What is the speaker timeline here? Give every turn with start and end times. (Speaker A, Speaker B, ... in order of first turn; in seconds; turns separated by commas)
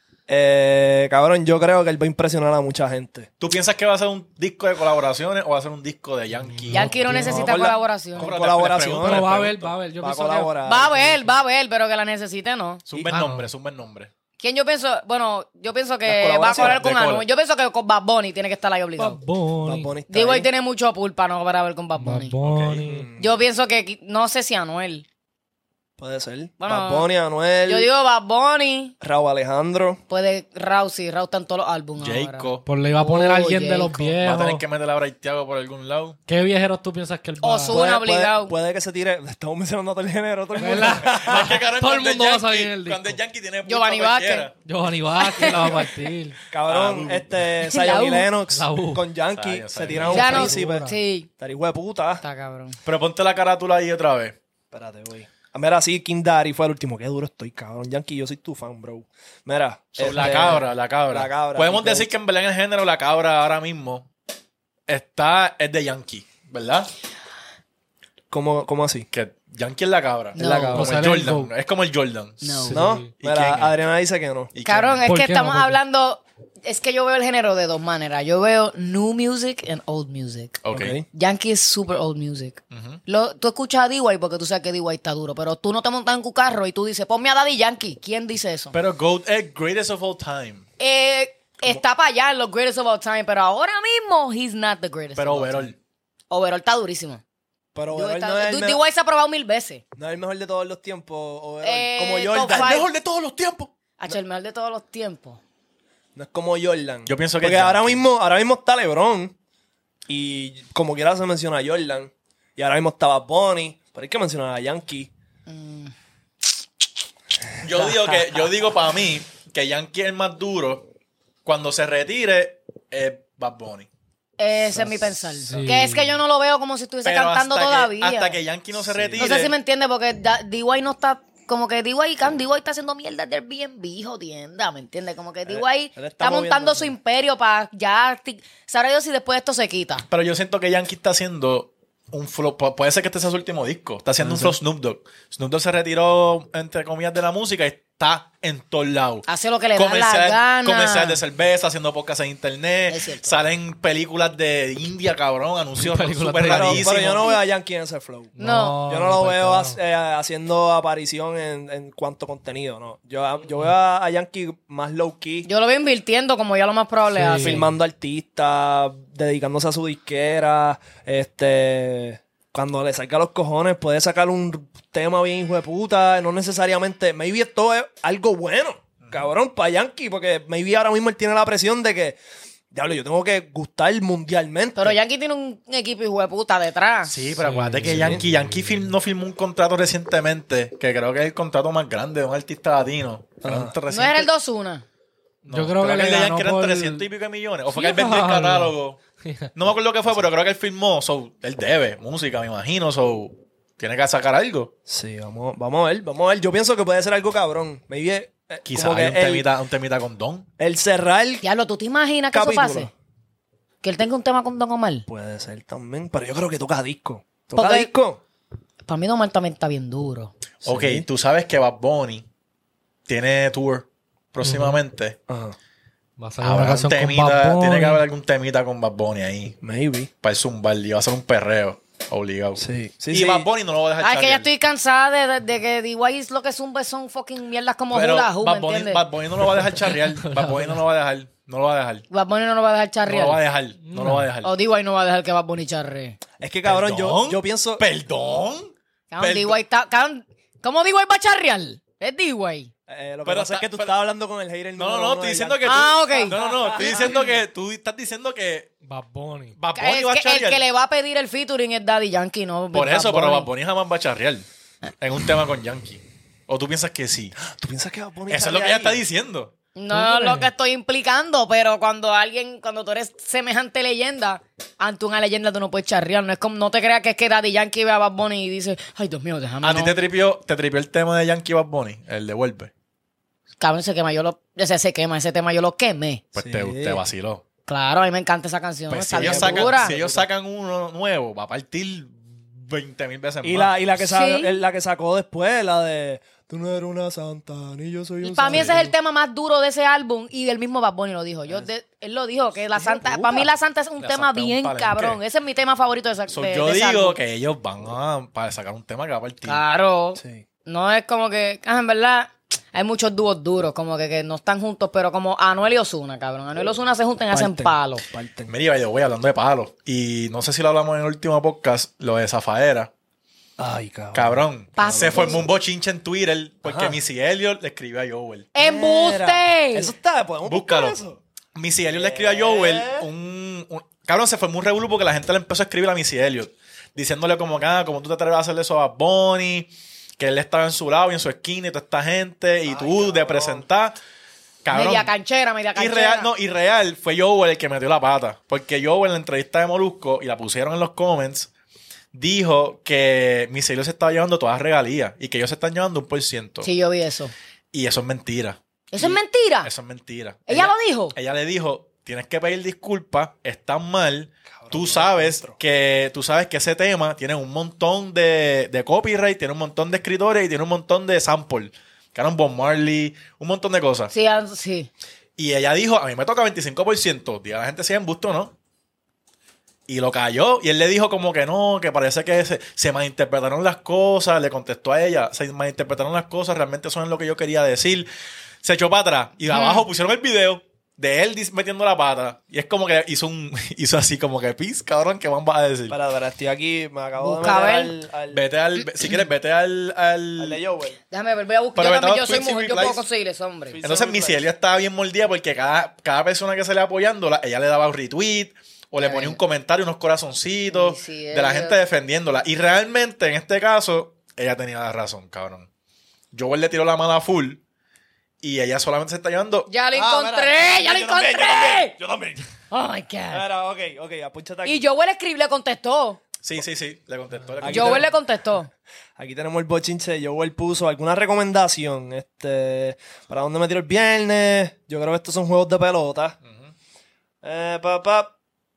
Speaker A: 0.3-3.3, Speaker B: 3.4-7.6, Speaker C: 6.6-7.5, Speaker D: 6.7-8.3, Speaker A: 7.1-9.3, Speaker B: 8.2-9.8, Speaker C: 8.9-10.6, Speaker A: 10.0-11.3, Speaker D: 10.7-12.8, Speaker B: 12.9-14.1, Speaker C: 13.1-13.5, Speaker D: 14.4-19.2, Speaker A: 16.1-16.8, Speaker B: 16.6-17.2, Speaker C: 19.0-19.9, Speaker A: 19.6-20.5, Speaker D: 20.1-22.4, Speaker C: 22.0-23.1, Speaker B: 22.4-22.8, Speaker A: 22.8-23.4, Speaker D: 23.2-25.1, Speaker A: 26.0-27.9, Speaker D: 26.6-27.1, Speaker D: 27.6-28.9, Speaker A: 29.0-30.0, Speaker D: 30.1-34.2, Speaker B: 32.0-32.7, Speaker C: 32.7-34.6, Speaker B: 34.2-36.2, Speaker C: 36.3-37.8, Speaker D: 37.4-38.5, Speaker A: 37.7-41.6, Speaker C: 40.6-43.2, Speaker B: 41.0-44.5, Speaker D: 43.7-44.5, Speaker C: 44.6-46.4, Speaker D: 45.2-45.9, Speaker A: 46.5-52.2, Speaker B: 46.6-47.3, Speaker D: 47.6-48.3, Speaker C: 48.5-49.0, Speaker B: 49.4-50.4, Speaker C: 49.9-51.0, Speaker D: 50.1-51.3, Speaker D: 52.2-52.8, Speaker B: 52.9-54.4, Speaker A: 54.7-62.1, Speaker B: 60.0-64.1, Speaker B: 64.9-66.9, Speaker A: 68.3-69.1, Speaker B: 69.1-72.7, Speaker D: 70.3-70.9, Speaker A: 70.4-70.9, Speaker C: 70.7-71.5, Speaker D: 72.4-72.9, Speaker C: 72.6-73.1, Speaker A: 72.7-74.5, Speaker B: 73.2-73.8, Speaker B: 74.5-75.0, Speaker D: 74.7-80.6, Speaker C: 75.0-75.8, Speaker B: 80.6-81.0, Speaker A: 80.7-81.1, Speaker D: 81.1-88.8, Speaker B: 82.7-83.0, Speaker B: 88.7-90.7, Speaker D: 90.8-95.7, Speaker B: 95.2-95.8, Speaker D: 96.3-97.2, Speaker A: 97.8-98.8, Speaker D: 97.9-99.8, Speaker A: 100.0-102.9, Speaker D: 101.6-102.9, Speaker B: 102.5-103.7, Speaker D: 104.0-105.4, Speaker A: 106.2-109.3, Speaker B: 107.1-108.0, Speaker A: 110.1-115.1, Speaker D: 115.5-115.9, Speaker B: 117.6-120.9, Speaker A: 117.7-118.4, Speaker B: 121.5-123.9, Speaker D: 124.4-128.4, Speaker C: 125.5-126.2, Speaker B: 127.0-129.5, Speaker A: 128.8-129.4, Speaker D: 129.2-140.1, Speaker A: 135.5-136.9, Speaker B: 140.1-157.3, Speaker A: 144.2-144.6, Speaker D: 149.3-151.2, Speaker D: 152.9-153.4, Speaker C: 155.8-156.9, Speaker A: 156.4-165.5, Speaker C: 158.4-159.8, Speaker D: 158.4-158.8, Speaker D: 165.4-167.7, Speaker C: 167.1-167.7, Speaker A: 167.4-182.2, Speaker B: 179.0-179.3, Speaker A: 182.7-185.0, Speaker D: 184.8-187.2, Speaker B: 187.1-194.3, Speaker C: 187.4-188.9, Speaker A: 187.9-188.2, Speaker A: 193.4-193.8, Speaker D: 193.9-194.8, Speaker B: 195.4-199.0, Speaker C: 195.5-197.1, Speaker C: 197.7-199.5, Speaker B: 199.6-204.7, Speaker A: 204.9-209.5, Speaker B: 208.7-210.5, Speaker A: 210.6-211.4, Speaker D: 211.4-212.9, Speaker A: 212.3-212.9, Speaker D: 213.8-215.1, Speaker A: 215.1-218.2, Speaker D: 217.6-217.9, Speaker D: 218.9-220.3, Speaker A: 220.6-221.1, Speaker B: 220.7-222.3, Speaker B: 223.1-225.2, Speaker C: 224.4-224.8, Speaker A: 225.3-225.6, Speaker C: 226.2-228.0, Speaker B: 226.4-229.6, Speaker A: 229.6-230.1, Speaker B: 230.2-234.5, Speaker A: 232.6-233.5, Speaker D: 234.0-239.0, Speaker B: 237.9-242.1, Speaker C: 240.2-240.8, Speaker D: 242.1-243.4, Speaker B: 243.1-244.5, Speaker C: 243.8-244.3, Speaker D: 244.4-246.2, Speaker A: 246.4-247.8, Speaker B: 246.7-249.6, Speaker D: 249.1-252.7, Speaker A: 252.9-257.3, Speaker B: 253.2-253.9, Speaker B: 254.8-258.7, Speaker D: 255.7-257.1, Speaker C: 258.8-259.6, Speaker B: 259.6-260.6, Speaker D: 259.8-263.5, Speaker B: 262.7-264.5, Speaker B: 265.0-267.4, Speaker A: 267.4-269.0, Speaker B: 268.3-269.5, Speaker D: 269.8-280.0, Speaker C: 269.9-270.4, Speaker B: 279.6-282.7, Speaker D: 283.6-286.2, Speaker B: 286.3-287.4, Speaker A: 286.4-287.0, Speaker D: 287.7-289.9, Speaker B: 288.9-293.8, Speaker A: 289.1-290.3, Speaker A: 293.4-298.9, Speaker D: 294.1-294.5, Speaker D: 298.2-307.2, Speaker B: 298.5-298.8, Speaker A: 302.7-303.5, Speaker B: 304.0-305.2, Speaker B: 306.3-309.6, Speaker D: 309.5-318.0, Speaker A: 310.2-310.4, Speaker A: 317.3-318.5, Speaker B: 318.5-322.9, Speaker A: 323.6-325.4, Speaker B: 324.1-328.5, Speaker D: 324.8-325.4, Speaker A: 326.6-327.0, Speaker D: 328.6-329.9, Speaker A: 328.6-331.2, Speaker B: 330.5-331.0, Speaker B: 331.6-344.0, Speaker A: 331.9-333.1, Speaker A: 342.7-343.7, Speaker B: 344.6-345.1, Speaker D: 344.7-346.3, Speaker B: 345.8-351.5, Speaker B: 352.1-356.7, Speaker D: 356.6-357.3, Speaker B: 357.7-374.1, Speaker D: 358.9-359.7, Speaker D: 360.5-361.1, Speaker A: 364.6-365.6, Speaker D: 374.1-374.9, Speaker B: 375.4-378.5, Speaker B: 379.9-388.1, Speaker B: 388.6-396.0, Speaker D: 389.5-389.8, Speaker A: 395.9-398.4, Speaker D: 397.2-397.9, Speaker B: 398.3-400.6, Speaker A: 400.4-401.0, Speaker D: 401.1-403.8, Speaker B: 401.8-403.0, Speaker A: 403.7-404.4, Speaker B: 403.8-415.7, Speaker D: 409.0-409.4, Speaker D: 410.7-411.8, Speaker B: 416.3-417.6, Speaker B: 418.4-419.7, Speaker D: 419.7-421.9, Speaker A: 419.9-422.5, Speaker D: 422.7-423.4, Speaker A: 423.3-424.8, Speaker D: 424.6-426.2, Speaker B: 426.4-428.1, Speaker A: 427.6-428.1, Speaker D: 427.6-428.7, Speaker A: 429.2-436.4, Speaker B: 436.5-436.7, Speaker A: 437.4-438.3